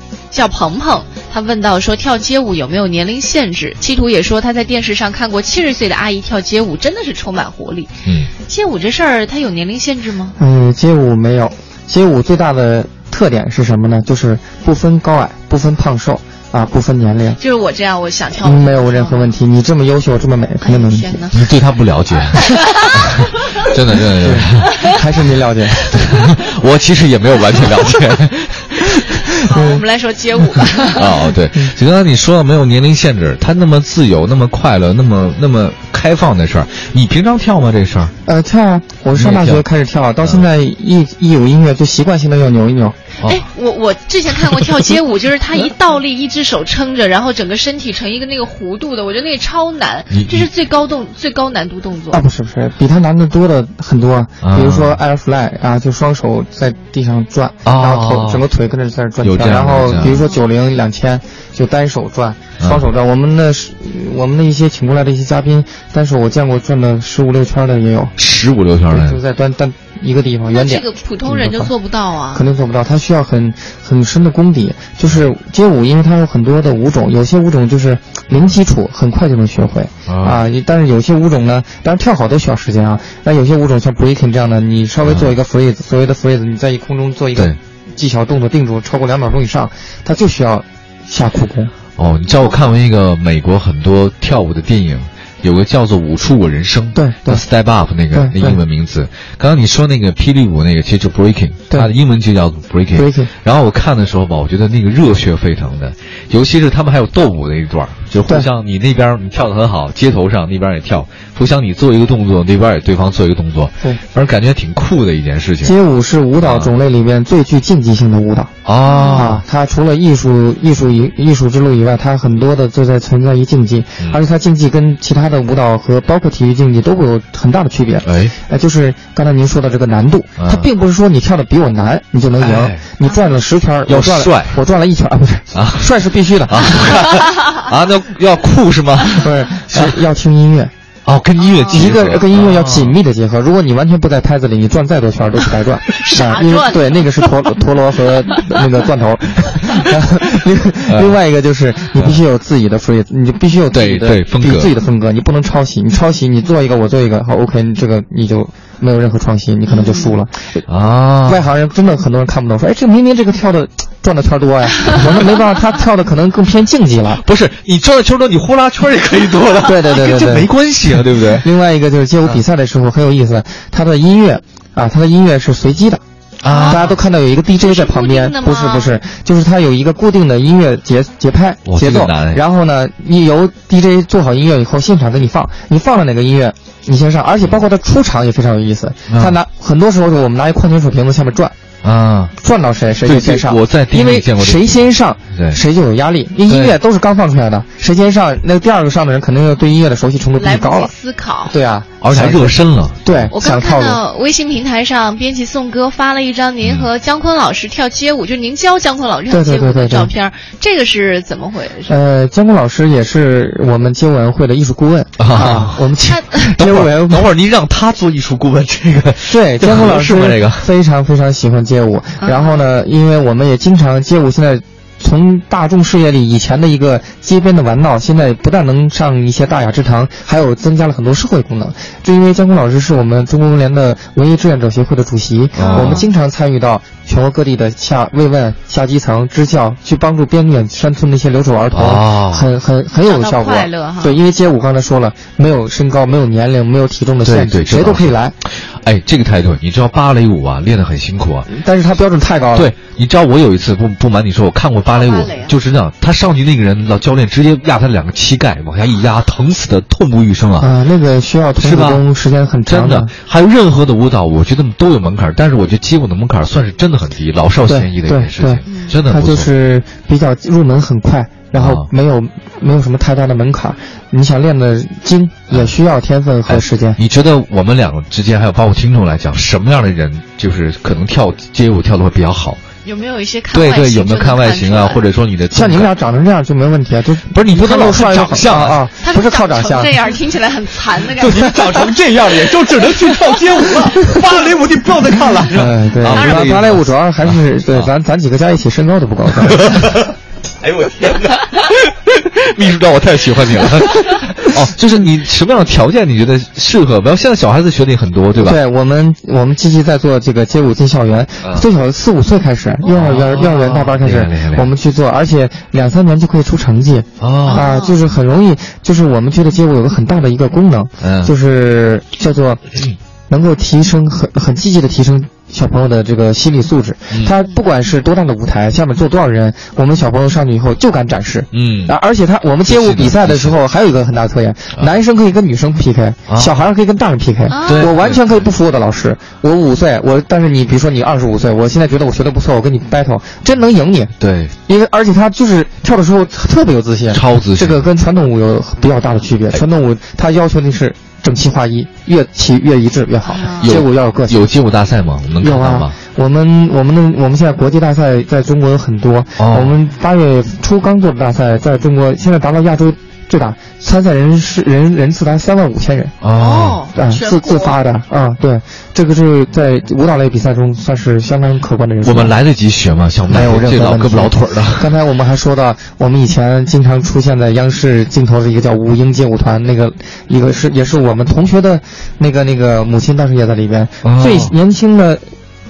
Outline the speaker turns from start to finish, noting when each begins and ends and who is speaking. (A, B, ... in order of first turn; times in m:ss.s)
0:00.3-0:10.4 A
0:10.4-0:17.4 B
0:17.4-0:19.3 A
0:18.4-0:21.2 B
0:20.6-0:21.4 A
0:21.3-0:24.9 C
0:22.4-0:23.3 A
0:23.9-0:25.9 B
0:25.9-0:29.3 C
0:29.4-0:31.3 A
0:29.4-0:29.8 B
0:30.9-0:38.1 C
0:38.2-0:43.0 B
0:39.1-0:39.6 C
0:43.2-0:52.2 A
0:50.1-0:50.5 C
0:52.1-1:08.1 B
0:54.4-0:55.0 C
0:57.6-0:58.4 C
0:59.2-1:00.2 C
1:00.0-1:00.4 A
1:02.6-1:02.8 C
1:08.2-1:09.2 C
1:08.9-1:11.7 B
1:10.5-1:12.4 A
1:12.3-1:31.7 B
1:20.0-1:20.4 C
1:25.0-1:25.4 C
1:32.0-1:55.7 C
1:32.3-1:32.7 A
1:36.9-1:37.4 B
1:38.1-1:38.6 B
1:42.9-1:43.3 B
1:55.6-1:58.5 B
1:56.4-1:56.7 C
1:58.6-1:59.4 C
1:58.9-1:59.4 A
1:59.1-2:16.9 B
2:08.0-2:08.4 C
2:10.4-2:10.7 C
2:12.4-2:12.8 C
2:13.9-2:14.6 C
2:15.5-2:15.9 C
2:16.5-2:20.0 C
2:19.2-2:20.7 B
2:21.0-2:23.0 C
2:21.4-2:21.8 A
2:21.7-2:40.6 B
2:25.9-2:27.3 A
2:30.9-2:31.2 C
2:31.9-2:32.2 C
2:33.7-2:34.7 C
2:39.7-2:40.2 A
2:40.7-2:41.5 C
2:41.2-2:47.2 B
2:47.1-2:51.4 C
2:49.6-2:56.0 B
2:56.4-2:57.0 C
2:56.4-2:56.8 A
2:56.7-3:11.5 B
2:57.6-2:58.9 A
3:01.6-3:02.4 C
3:09.1-3:09.4 C
3:11.8-3:12.3 C
3:12.4-3:20.9 B
3:13.0-3:15.6 C
3:16.5-3:16.8 C
3:20.4-3:21.5 A
3:21.5-3:24.0 B
3:22.0-3:23.3 C
3:23.3-3:32.0 A
3:26.6-3:26.9 C
3:29.3-3:30.1 B
3:31.8-3:37.3 B
3:35.2-3:35.9 C
3:36.1-3:36.5 A
3:36.5-3:40.7 C
3:39.3-4:08.3 B
3:42.2-3:42.6 A
3:55.5-3:56.0 C
3:55.6-3:56.1 A
4:01.7-4:02.5 C
4:03.0-4:04.2 A
4:07.2-4:11.5 C
4:11.5-4:12.7 B
4:12.5-4:20.7 C
4:14.8-4:15.6 A
4:20.6-4:23.1 B
4:21.6-4:22.0 C
4:22.7-4:29.5 C
4:27.7-4:37.0 B
4:28.6-4:29.0 A
4:31.6-4:31.9 C
4:35.5-4:35.7 C
4:36.4-4:42.6 C
4:42.8-4:45.0 A
4:43.5-4:45.9 C
4:45.5-4:49.9 B
4:47.3-4:48.8 C
4:49.0-4:51.9 A
4:51.1-4:57.9 C
4:55.5-4:59.9 B
4:56.1-4:56.5 A
4:59.4-5:08.6 C
5:08.4-5:22.6 B
5:11.4-5:11.7 C
5:12.8-5:14.7 C
5:17.2-5:17.7 C
5:17.4-5:18.0 A
5:21.0-5:21.3 C
5:23.3-5:44.1 B
5:27.1-5:27.4 C
5:31.5-5:31.9 C
5:32.6-5:33.6 C
5:36.3-5:36.6 C
5:37.5-5:37.9 A
5:37.6-5:38.4 C
5:44.2-5:44.5 C
5:44.7-5:54.5 B
5:47.1-5:47.8 C
5:53.2-5:53.8 A
5:53.6-5:56.0 C
5:55.4-6:06.1 B
5:59.4-5:59.8 C
6:06.2-6:06.8 C
6:06.3-6:07.8 A
6:06.9-6:12.4 B
6:12.0-6:15.0 C
6:13.2-6:25.2 B
6:24.0-6:24.5 C